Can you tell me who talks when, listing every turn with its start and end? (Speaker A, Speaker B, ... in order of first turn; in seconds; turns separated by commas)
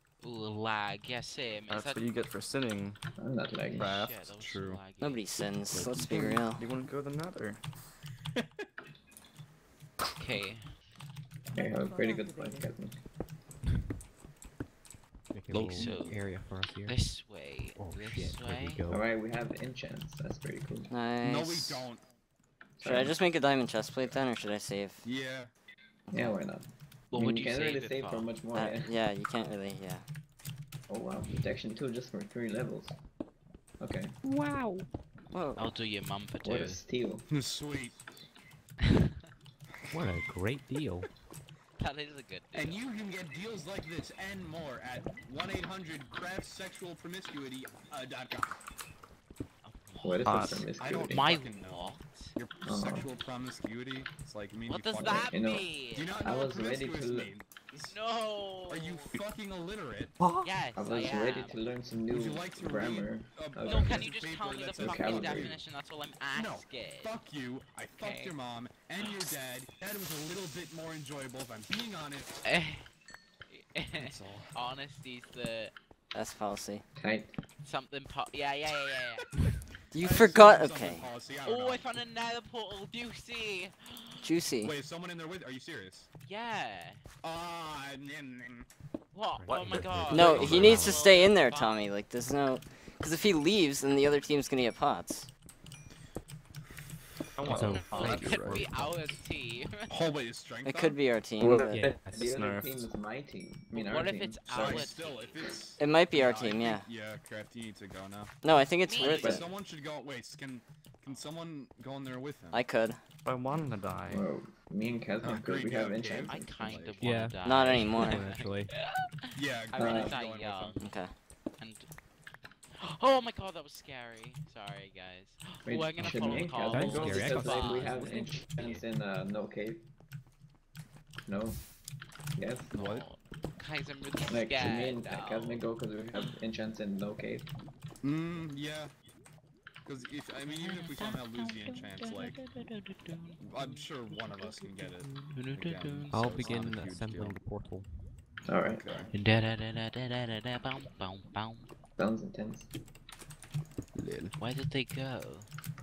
Speaker A: 0.2-2.2, Speaker B: 1.7-3.0, Speaker C: 3.2-3.9, Speaker A: 3.6-5.2, Speaker B: 3.8-4.3, Speaker D: 4.4-4.8, Speaker E: 5.0-6.7, Speaker B: 5.7-7.6, Speaker A: 10.2-10.6, Speaker C: 11.5-13.0, Speaker F: 15.3-17.0, Speaker D: 15.5-16.2, Speaker A: 15.7-16.2, Speaker A: 16.8-18.8, Speaker F: 17.8-19.0, Speaker C: 18.9-20.9, Speaker E: 20.9-21.9, Speaker D: 21.2-22.0, Speaker C: 22.8-23.2, Speaker E: 22.8-25.1, Speaker D: 25.0-25.5, Speaker C: 26.1-28.9, Speaker A: 27.1-28.3, Speaker E: 28.5-30.1, Speaker C: 30.9-33.0, Speaker C: 33.8-34.1, Speaker F: 34.2-34.9, Speaker E: 35.3-35.7, Speaker A: 35.6-36.8, Speaker C: 36.5-37.3, Speaker D: 37.3-38.0, Speaker D: 39.9-40.1, Speaker F: 39.9-41.1, Speaker A: 41.8-42.8, Speaker D: 42.5-48.5, Speaker A: 49.6-50.4, Speaker C: 50.0-51.3, Speaker B: 50.2-50.7, Speaker D: 50.8-55.3, Speaker A: 51.1-52.4, Speaker C: 52.6-53.1, Speaker A: 54.7-56.2, Speaker C: 55.0-55.7, Speaker D: 55.9-58.0, Speaker C: 56.2-57.3, Speaker A: 57.9-59.1, Speaker D: 58.7-60.2, Speaker B: 60.2-60.6, Speaker A: 60.4-61.6, Speaker C: 60.7-64.1, Speaker D: 62.1-65.6, Speaker A: 63.6-67.1, Speaker C: 64.7-65.6, Speaker D: 66.3-72.5, Speaker A: 68.0-68.3, Speaker A: 69.0-69.3, Speaker A: 72.5-72.9, Speaker A: 73.5-75.7, Speaker D: 74.0-74.5, Speaker E: 76.1-76.8, Speaker C: 77.0-77.4, Speaker A: 77.6-79.3, Speaker E: 79.9-81.1, Speaker D: 80.0-81.8, Speaker A: 81.5-84.3, Speaker E: 84.2-84.7, Speaker D: 84.6-86.1, Speaker A: 86.2-87.0, Speaker D: 87.2-88.7, Speaker A: 89.1-91.9, Speaker F: 89.3-91.0, Speaker E: 90.1-95.3, Speaker B: 97.4-98.8, Speaker F: 97.4-99.2, Speaker A: 97.5-99.8, Speaker D: 99.9-101.0, Speaker E: 100.6-101.8, Speaker C: 101.4-104.9, Speaker F: 101.7-102.4, Speaker B: 102.3-102.9, Speaker A: 103.7-105.4, Speaker D: 104.5-108.3, Speaker E: 105.8-106.9, Speaker E: 108.4-109.5, Speaker A: 108.8-109.3, Speaker D: 109.0-112.6, Speaker C: 109.1-109.5, Speaker E: 112.5-113.0, Speaker B: 113.2-114.2, Speaker C: 114.1-116.5, Speaker D: 115.2-117.2, Speaker A: 116.2-120.8, Speaker F: 117.0-118.7, Speaker E: 117.4-118.3, Speaker D: 119.3-120.9, Speaker C: 119.8-120.2, Speaker E: 120.8-121.1, Speaker A: 121.6-121.9, Speaker A: 122.8-128.8, Speaker C: 125.7-129.8, Speaker F: 126.0-128.1, Speaker C: 131.3-131.6, Speaker C: 132.4-132.7, Speaker A: 132.7-135.6, Speaker D: 132.8-133.1, Speaker C: 134.2-137.5, Speaker D: 138.0-138.9, Speaker D: 139.8-142.4, Speaker A: 140.5-143.4, Speaker D: 143.4-147.4, Speaker A: 145.3-146.7, Speaker F: 146.1-147.9, Speaker C: 148.5-149.0, Speaker D: 148.7-149.1, Speaker A: 149.1-151.7, Speaker C: 152.0-152.7, Speaker F: 154.0-154.3, Speaker A: 154.4-155.5